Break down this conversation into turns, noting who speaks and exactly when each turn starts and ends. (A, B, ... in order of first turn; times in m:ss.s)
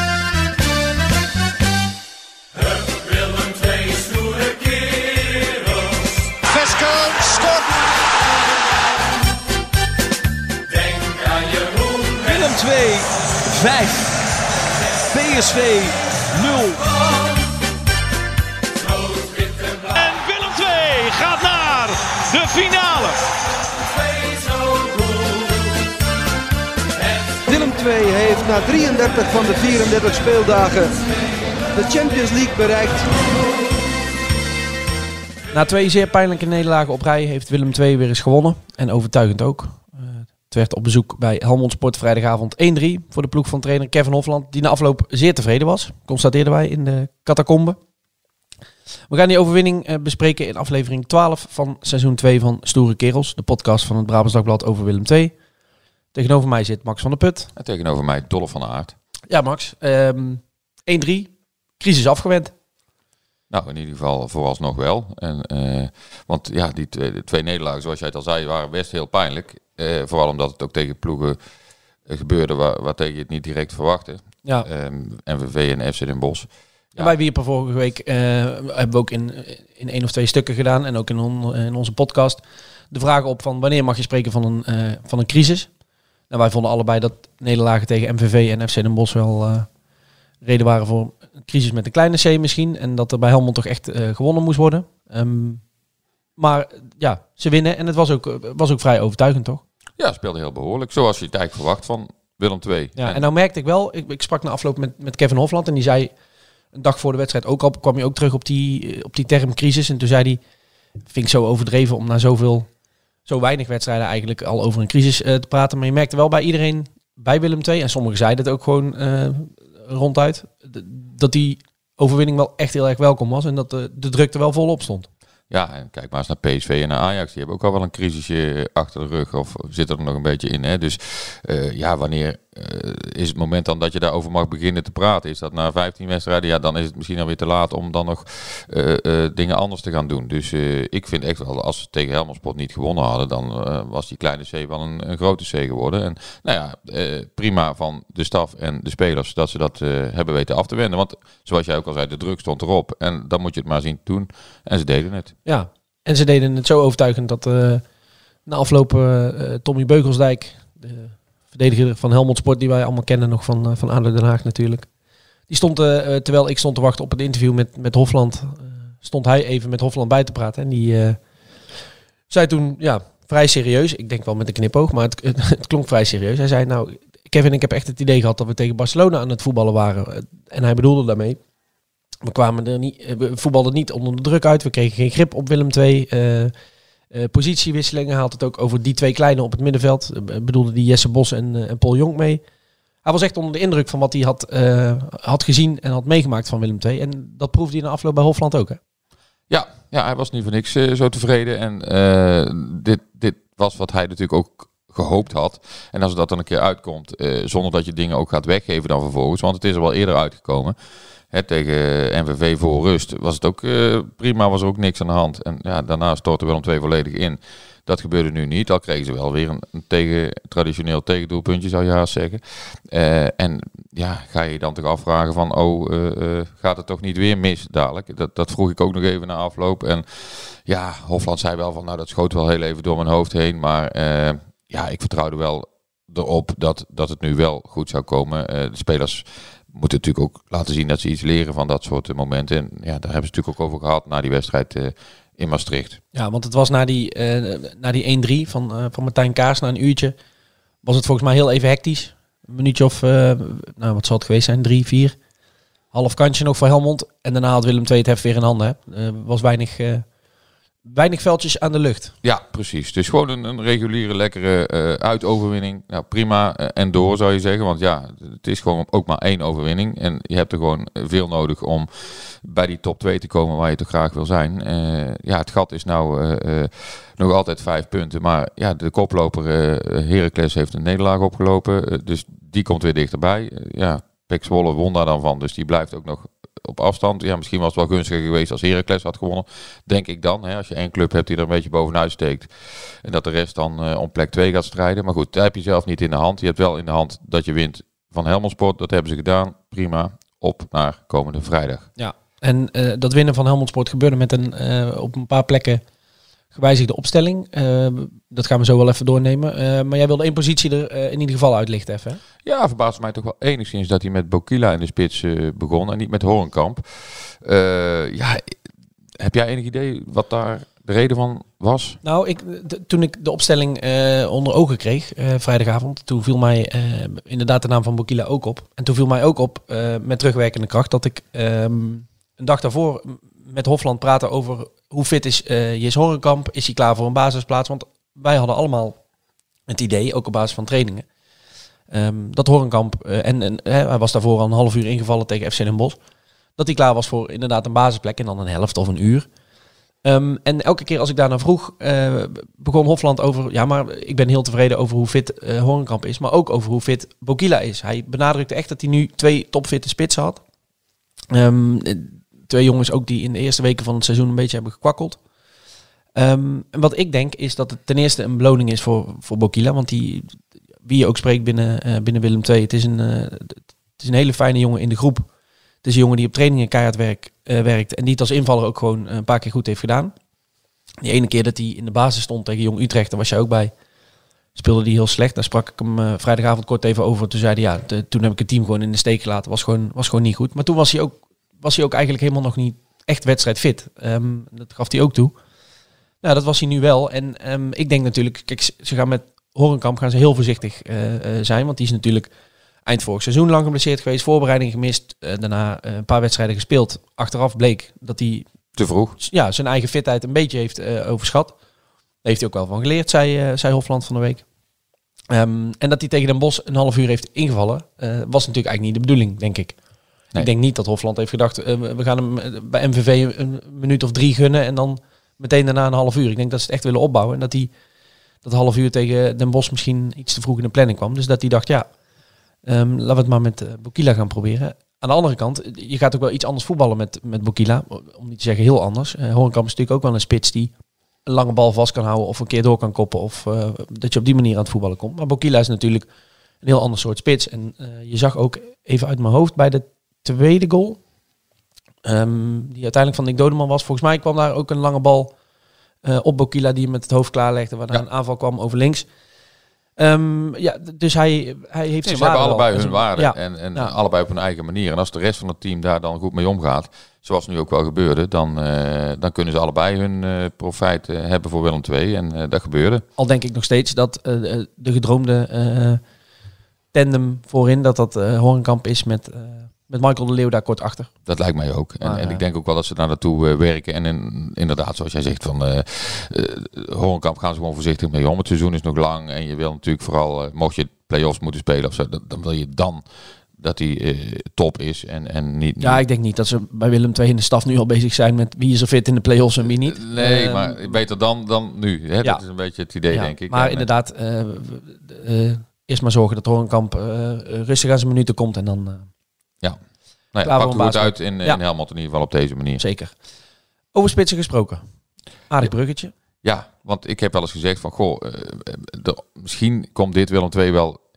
0:06.4-0:07.7 A
0:11.2-0:14.2 A
0:15.1-0:16.9 A
0:19.5-0:23.2 A
0:27.4-0:31.0 A
0:31.7-0:33.1 A
0:35.5-0:47.8 B
0:49.1-0:55.3 B
0:56.1-0:57.5 B
0:57.6-0:58.9 C
0:59.3-1:02.5 B
1:03.5-1:11.4 C
1:12.0-1:17.1 C
1:17.0-1:25.7 B
1:26.3-1:29.7 B
1:30.4-1:35.6 B
1:36.4-1:39.6 B
1:40.0-1:43.2 C
1:43.0-1:46.1 B
1:46.7-1:50.4 B
1:51.1-1:52.7 B
1:53.2-2:05.1 B
2:05.5-2:35.3 C
2:35.4-2:37.8 B
2:38.4-2:44.9 B
2:45.5-2:51.2 B
2:52.3-3:01.4 B
3:02.2-3:06.5 B
3:07.1-3:12.4 B
3:13.0-3:18.8 B
3:19.5-3:30.8 C
3:31.3-4:06.0 C
4:06.1-4:10.1 B
4:10.8-4:15.2 B
4:15.9-4:20.0 B
4:20.8-4:22.1 B
4:22.2-5:01.9 C
5:02.0-5:05.8 B
5:06.5-5:12.2 B
5:12.4-5:18.5 C
5:19.2-5:22.0 C
5:22.0-5:39.0 B
5:39.7-5:41.0 B
5:41.9-5:46.0 B
5:46.6-5:49.3 B
5:50.0-6:00.4 B
6:01.3-6:05.2 B
6:06.1-6:15.3 B
6:15.8-6:20.1 B
6:21.0-6:23.7 B
6:24.5-6:35.3 B
6:36.2-6:42.3 B
6:42.8-6:48.5 B
6:48.8-6:49.2 C
6:49.2-6:51.6 B
6:52.2-6:54.4 B
6:55.3-6:59.8 B
7:00.4-7:07.7 B
7:08.4-7:11.9 B
7:12.7-7:20.7 B
7:21.2-7:26.1 B
7:26.6-7:31.0 B
7:32.0-7:35.3 B
7:36.0-7:39.0 B
7:40.0-7:43.9 B
7:42.0-7:53.0 C
7:53.2-7:56.0 B
7:56.9-8:01.1 B
8:01.2-8:16.0 C
8:02.0-8:02.4 B
8:15.8-8:21.0 B
8:19.8-8:23.9 C
8:23.1-8:29.1 B
8:30.3-8:32.8 C
8:30.4-8:31.6 B
8:32.8-8:33.1 B
8:33.9-8:34.8 B
8:35.5-8:36.1 B
8:36.4-8:41.0 C